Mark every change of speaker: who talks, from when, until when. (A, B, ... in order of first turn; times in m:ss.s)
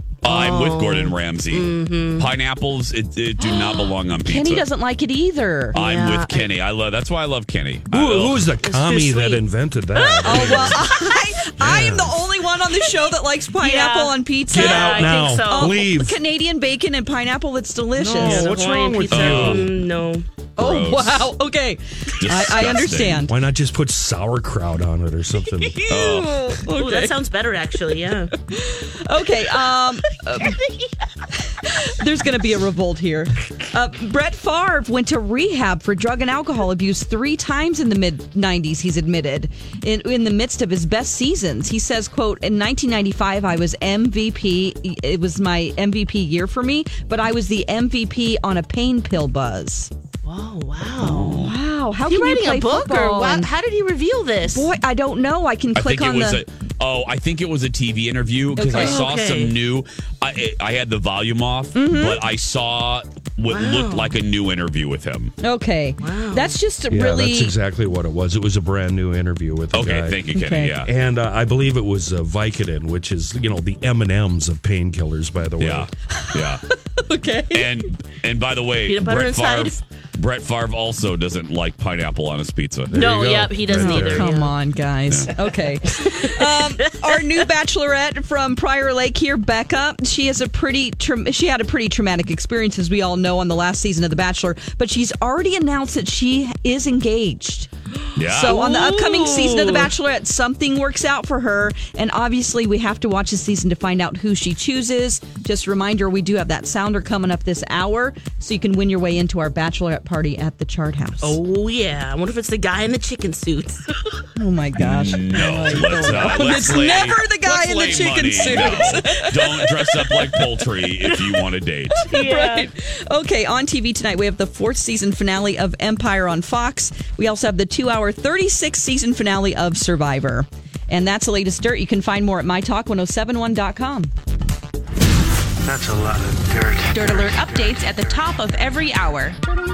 0:00.2-0:04.6 A
0:00.2-0:02.3 B
0:03.4-0:03.9 B
0:04.2-0:05.8 C
0:05.7-0:06.5 B
0:05.7-0:08.5 A
0:07.9-0:10.8 D
0:08.6-0:09.4 B
0:10.0-0:11.2 B
0:10.2-0:18.5 C
0:11.6-0:12.2 D
0:13.5-0:15.9 B
0:14.5-0:16.2 D
0:18.0-0:20.3 B
0:18.0-0:19.7 D
0:19.1-0:19.7 A
0:20.6-0:21.3 A
0:20.6-0:23.4 C
0:22.2-0:23.3 A
0:23.2-0:25.8 D
0:25.6-0:28.3 B
0:25.9-0:26.4 A
0:26.7-0:27.1 C
0:28.5-0:30.6 C
0:31.4-0:49.9 C
0:50.2-0:51.4 B
0:50.9-0:51.5 A
0:51.4-0:53.5 C
0:52.0-0:54.7 B
0:54.5-0:56.4 C
0:55.8-1:05.4 A
0:58.6-0:59.0 C
0:58.8-0:59.6 B
1:01.7-1:02.2 C
1:03.5-1:04.2 B
1:05.4-1:07.6 C
1:06.0-1:06.6 B
1:06.9-1:10.2 D
1:09.7-1:10.9 A
1:10.3-1:10.8 C
1:10.8-1:15.9 D
1:15.6-1:16.6 A
1:16.1-1:17.8 C
1:17.5-1:23.0 A
1:18.8-1:19.8 B
1:22.9-1:24.3 D
1:22.9-1:24.6 B
1:23.7-1:37.7 C
1:26.0-1:26.6 B
1:38.2-1:38.6 A
1:38.3-1:51.4 C
1:38.5-1:39.9 B
1:51.2-1:54.2 B
1:54.4-2:00.6 C
1:54.8-2:02.1 A
1:58.6-1:59.2 B
2:02.0-2:14.1 C
2:02.1-2:02.7 B
2:15.6-2:18.4 E
2:16.9-2:19.4 F